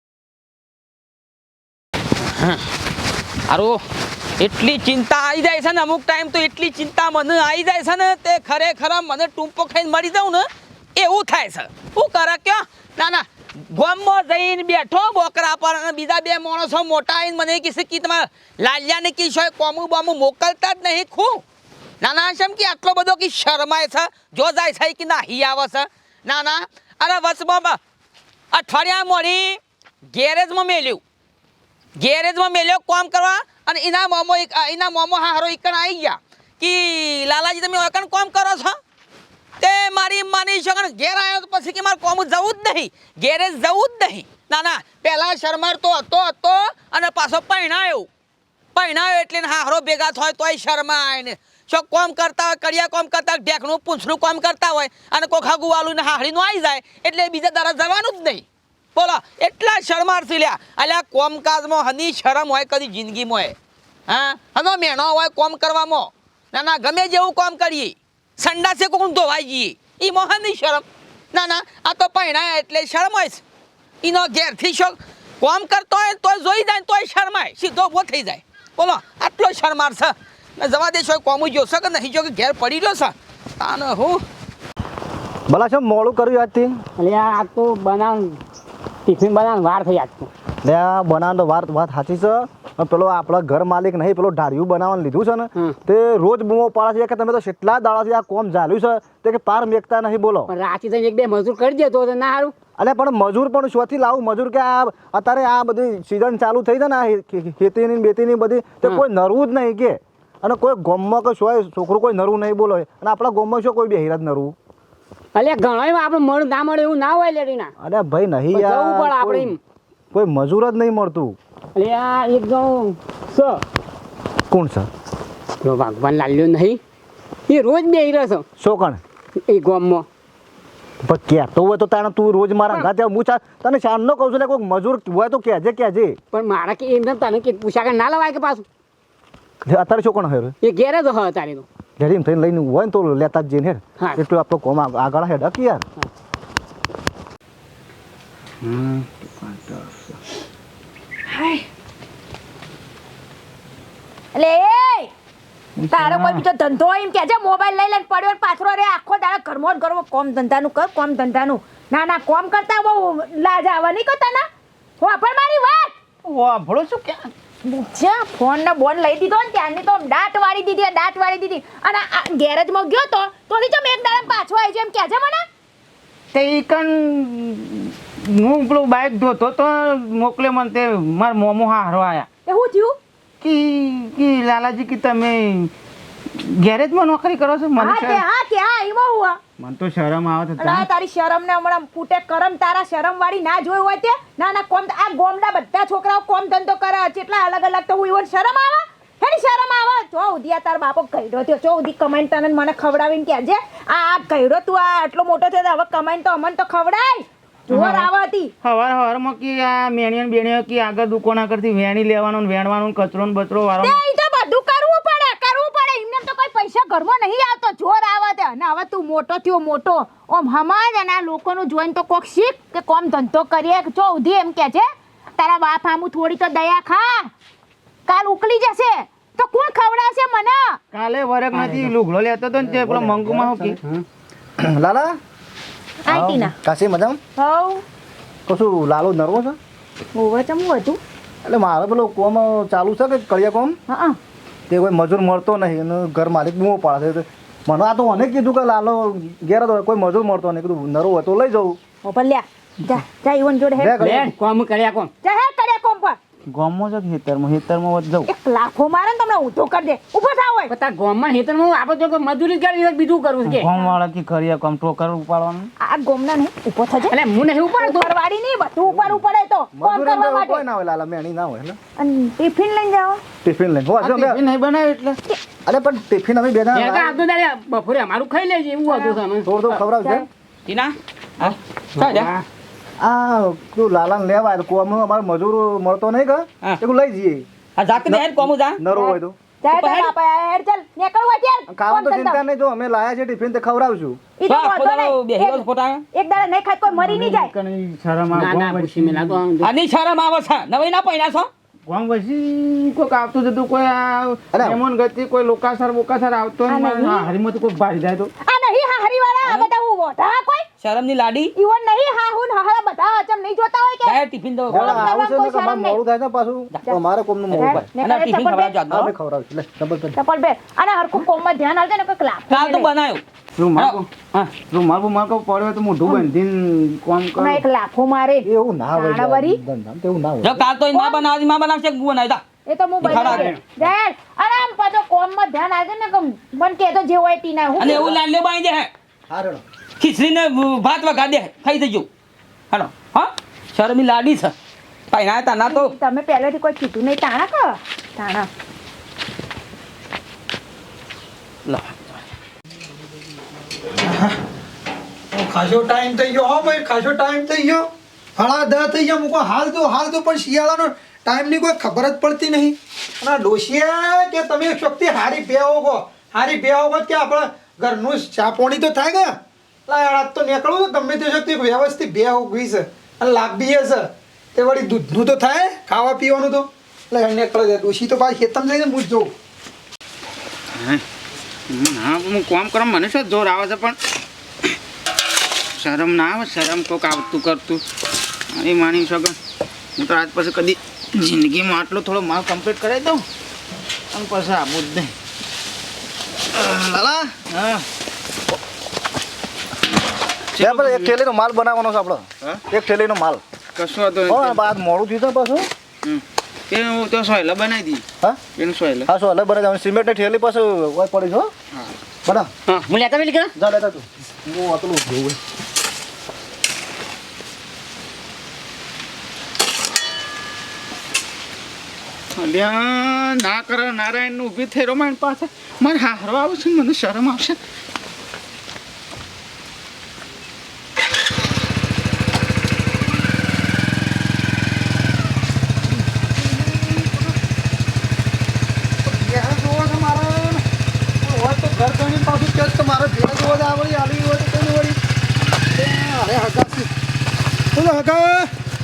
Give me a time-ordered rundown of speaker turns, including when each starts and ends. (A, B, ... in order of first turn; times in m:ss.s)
0:03.5-0:03.8 A
0:04.4-0:21.4 A
0:22.0-0:27.8 A
0:28.5-0:29.6 A
0:30.1-0:31.0 A
0:32.0-0:38.8 A
0:39.6-0:48.1 A
0:48.7-0:58.4 A
0:59.0-1:03.5 A
1:04.1-1:13.4 A
1:14.0-1:24.2 A
1:25.5-1:26.8 B
1:27.0-1:28.4 C
1:29.0-1:30.3 C
1:30.6-1:40.5 B
1:40.5-1:42.5 C
1:42.8-1:54.5 B
1:55.3-1:57.7 C
1:57.8-1:59.5 B
1:58.5-1:59.6 C
2:00.1-2:01.4 B
2:01.7-2:03.6 C
2:04.5-2:04.9 B
2:05.6-2:06.8 C
2:07.5-2:08.4 C
2:08.6-2:09.0 B
2:09.4-2:10.0 C
2:11.0-2:16.1 B
2:16.3-2:18.6 C
2:19.6-2:20.5 B
2:20.6-2:21.6 C
2:22.0-2:25.8 B
2:28.6-2:30.1 D
2:31.3-2:31.6 E
2:34.3-2:35.1 E
2:35.8-2:36.4 D
2:35.9-2:44.4 E
2:45.0-2:45.9 E
2:46.2-2:47.3 D
2:47.6-2:55.4 E
2:56.3-3:02.3 D
3:02.4-3:03.0 E
3:03.4-3:05.7 D
3:06.3-3:08.2 D
3:07.8-3:09.4 E
3:09.6-3:10.9 D
3:10.6-3:28.5 E
3:27.7-3:28.1 D
3:28.6-3:34.0 D
3:33.8-3:47.3 E
3:48.0-3:50.8 E
3:50.9-3:53.8 D
3:52.6-3:53.8 B
3:54.6-3:55.1 B
3:56.0-3:56.5 E
3:56.1-3:57.2 B
3:57.4-3:57.8 E
3:58.5-3:59.6 B
4:00.1-4:01.0 E
4:01.4-4:03.8 B
4:03.9-4:04.2 E
4:04.7-4:11.8 B
4:12.0-4:14.0 E
4:13.8-4:14.3 B
4:14.0-4:15.1 C
4:15.2-4:16.2 E
4:16.5-4:18.3 D
4:18.2-4:20.7 E
4:20.7-4:23.7 C
4:23.4-4:25.7 D
4:25.8-4:30.6 E
4:27.1-4:28.1 C
4:29.7-4:31.8 B
4:32.0-4:33.2 E
4:33.4-4:34.4 B
4:34.0-4:35.2 D
4:35.6-4:37.2 B
4:36.7-4:39.8 C
4:38.8-4:39.2 E
4:39.4-4:40.2 B
4:40.0-4:40.3 E
4:40.6-4:42.3 A
4:42.0-4:42.4 C
4:43.0-4:47.4 B
4:47.8-4:48.8 A
4:48.0-4:49.4 B
4:48.9-4:52.4 E
4:49.7-4:50.1 A
4:51.7-4:54.2 B
4:54.4-4:57.5 E
4:54.5-4:56.0 A
4:56.9-4:59.4 D
4:58.3-4:59.7 C
4:59.6-5:01.5 A
5:01.9-5:08.3 D
5:04.5-5:04.8 B
5:06.7-5:07.3 E
5:08.4-5:10.6 E
5:10.8-5:11.5 A
5:11.6-5:14.2 E
5:14.0-5:15.1 A
5:14.7-5:17.9 B
5:14.7-5:16.0 E
5:17.5-5:19.1 A
5:17.5-5:18.7 E
5:18.9-5:20.2 B
5:20.1-5:22.9 E
5:22.5-5:23.2 A
5:23.6-5:24.1 D
5:23.7-5:24.5 A
5:24.6-5:27.6 D
5:27.4-5:29.6 E
5:28.4-5:30.6 B
5:30.4-5:32.4 A
5:30.9-5:31.2 E
5:32.6-5:38.1 E
5:33.0-5:33.5 A
5:33.2-5:33.6 D
5:37.8-5:38.9 A
5:39.3-5:39.6 B
5:40.0-5:42.1 A
5:42.7-5:44.5 A
5:45.1-5:45.9 A
5:45.6-5:48.5 E
5:51.6-5:52.2 A
5:54.0-5:54.4 F
5:55.3-6:19.3 F
6:20.7-6:21.0 D
6:21.7-6:24.0 D
6:25.8-6:27.8 D
6:28.5-6:29.4 D
6:30.0-6:33.2 D
6:34.1-6:35.1 D
6:36.5-6:37.8 B
6:40.5-6:41.1 D
6:40.6-6:43.4 B
6:43.8-6:44.6 D
6:44.3-6:45.7 B
6:46.0-6:48.0 D
6:48.6-6:49.1 D
6:49.1-6:51.5 B
6:52.7-6:53.5 C
6:53.6-6:55.4 B
7:02.4-7:07.6 D
7:16.5-7:17.1 B
7:19.2-7:20.4 B
7:21.2-7:25.0 B
7:21.5-7:22.1 F
7:25.7-7:26.9 B
7:27.8-7:28.4 B